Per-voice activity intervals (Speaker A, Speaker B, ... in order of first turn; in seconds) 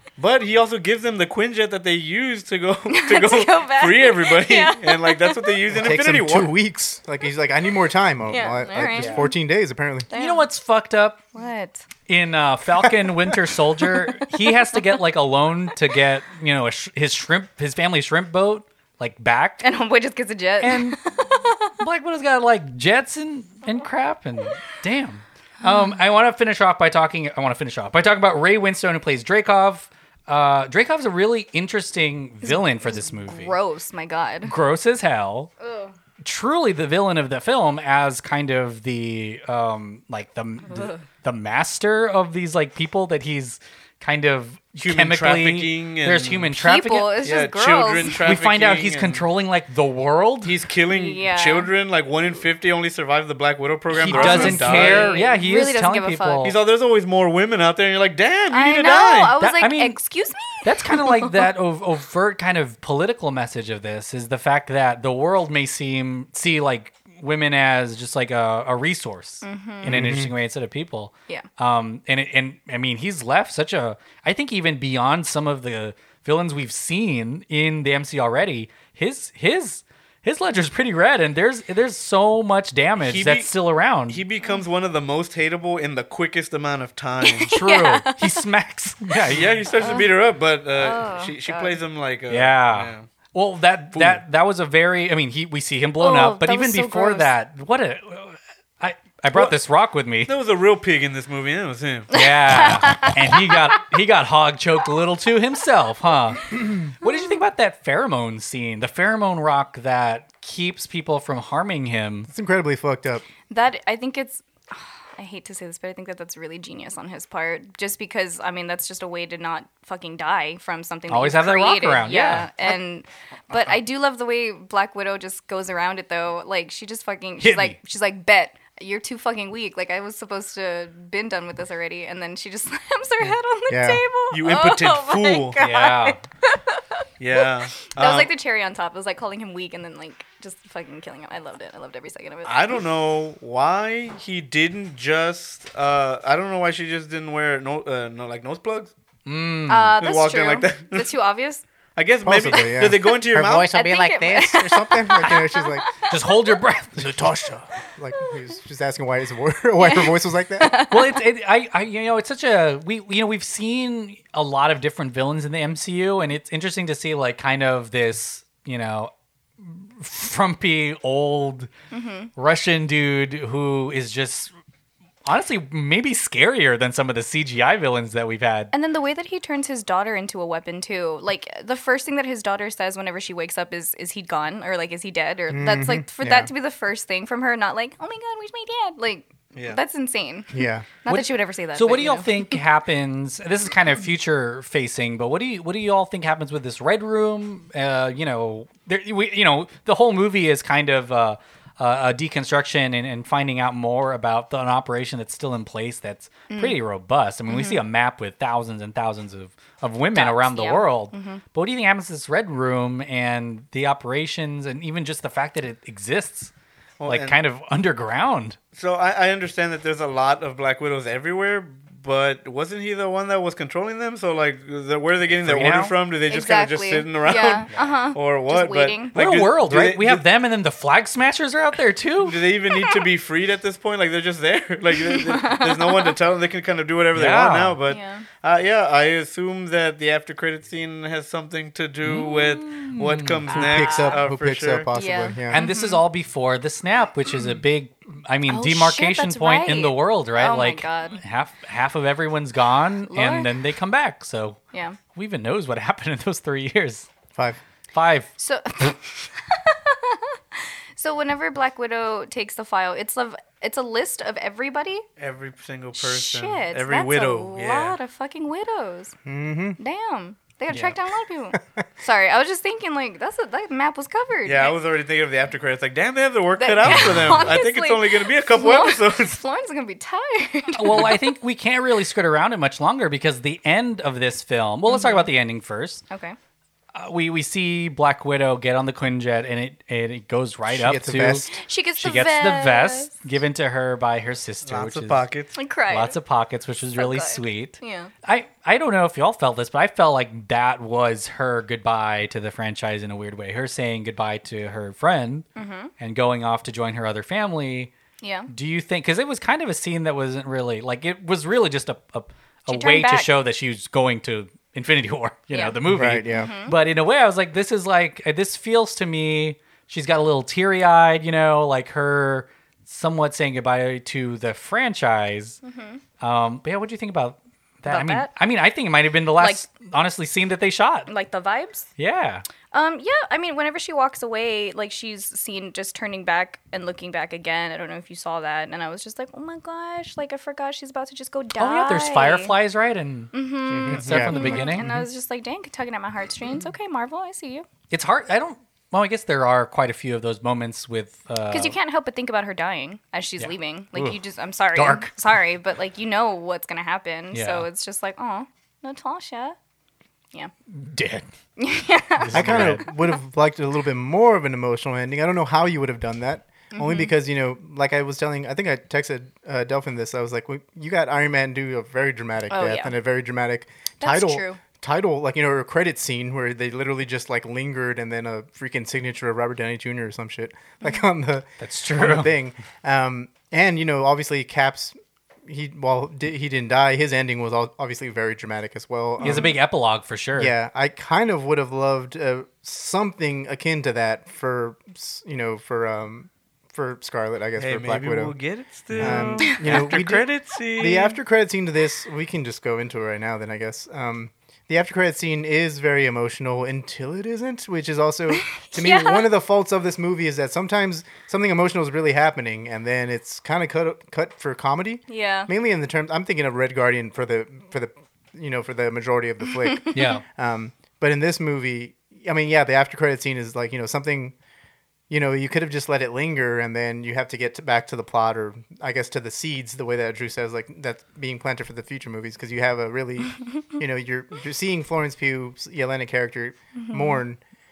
Speaker A: 0.2-6.5, 44.8-46.5, 47.2-49.2, 50.4-55.2, 56.4-59.3, 83.0-83.5, 84.1-87.5, 89.3-93.1, 93.9-94.2, 100.2-102.1, 134.3-135.6, 137.2-138.3, 142.4-148.9, 150.0-151.2, 151.9-153.8, 189.5-189.8, 217.0-217.4, 218.7-230.2, 232.2-244.9, 265.2-268.0, 274.4-279.4, 294.6-295.6, 343.9-344.2, 397.6-401.1
Speaker B: 2.9-5.6, 8.3-9.3, 10.1-10.4, 11.3-11.8, 13.8-14.8, 19.6-21.7, 25.6-26.0, 32.4-34.5, 35.6-35.9, 40.7-41.0, 46.5-48.1, 50.9-51.7, 54.0-56.5, 58.5-61.5, 69.4-70.0, 87.2-88.4, 89.8-90.1, 90.8-91.8, 96.0-97.3, 102.1-103.8, 107.0-107.4, 113.5-142.8, 149.7-151.6, 152.5-156.1, 159.8-161.2, 171.9-172.3, 178.7-192.6, 206.5-206.8, 207.5-207.8, 210.1-211.4, 226.3-229.1, 232.7-233.0, 235.0-236.2, 237.9-238.2, 243.5-244.2, 244.9-246.0, 248.5-251.2, 253.1-253.5, 254.7-255.0, 258.4-265.0, 266.0-269.1, 269.8-274.8, 276.6-281.3, 284.9-285.3, 286.1-286.4, 291.5-293.1, 295.6-296.2, 297.0-298.1, 305.6-305.9, 308.2-308.5, 312.7-313.3, 316.3-316.8, 325.6-326.0, 327.9-328.3, 329.4-329.6, 331.1-331.9, 332.7-342.5, 343.3-347.6, 351.5-359.6, 361.6-363.2, 366.7-367.1, 372.5-372.9, 374.0-374.6, 408.3-409.3, 415.1-415.5, 419.8-420.2, 436.8-437.2
Speaker C: 5.7-10.1, 69.8-70.3, 112.3-113.2, 133.7-134.0, 152.2-155.9, 156.9-160.8, 185.5-186.5, 190.5-190.9, 243.6-245.6, 257.3-257.6, 269.2-269.8, 271.6-271.8, 290.7-291.6, 315.9-316.5, 343.7-345.1, 362.3-389.6, 390.4-398.4, 398.9-424.3, 425.1-437.4
Speaker D: 8.9-9.3, 10.1-11.2, 12.1-19.6, 20.6-21.0, 21.8-33.5, 34.5-35.5, 36.2-47.3, 48.2-50.5, 53.9-56.6, 59.4-60.0, 60.6-84.2, 87.5-89.6, 92.3-100.3, 102.1-112.3, 121.1-122.5, 127.4-127.8, 135.6-136.2, 149.2-149.9, 156.1-157.3, 160.9-171.7, 172.4-174.5, 175.2-178.7, 191.1-216.5, 217.0-218.6, 225.3-225.9, 227.7-228.0, 229.1-232.3, 237.1-237.8, 242.0-243.5, 245.5-254.6, 255.1-257.1, 257.9-258.3, 270.7-271.0, 276.9-277.2, 280.7-286.0, 286.9-295.2, 295.9-305.4, 306.0-307.9, 308.5-325.6, 326.2-331.1, 332.0-332.4, 341.6-343.3, 343.9-344.9, 347.9-351.7, 353.4-354.2, 354.7-355.1, 357.3-357.6, 360.7-361.3, 362.2-362.9, 381.6-382.3, 389.2-390.5, 419.9-420.2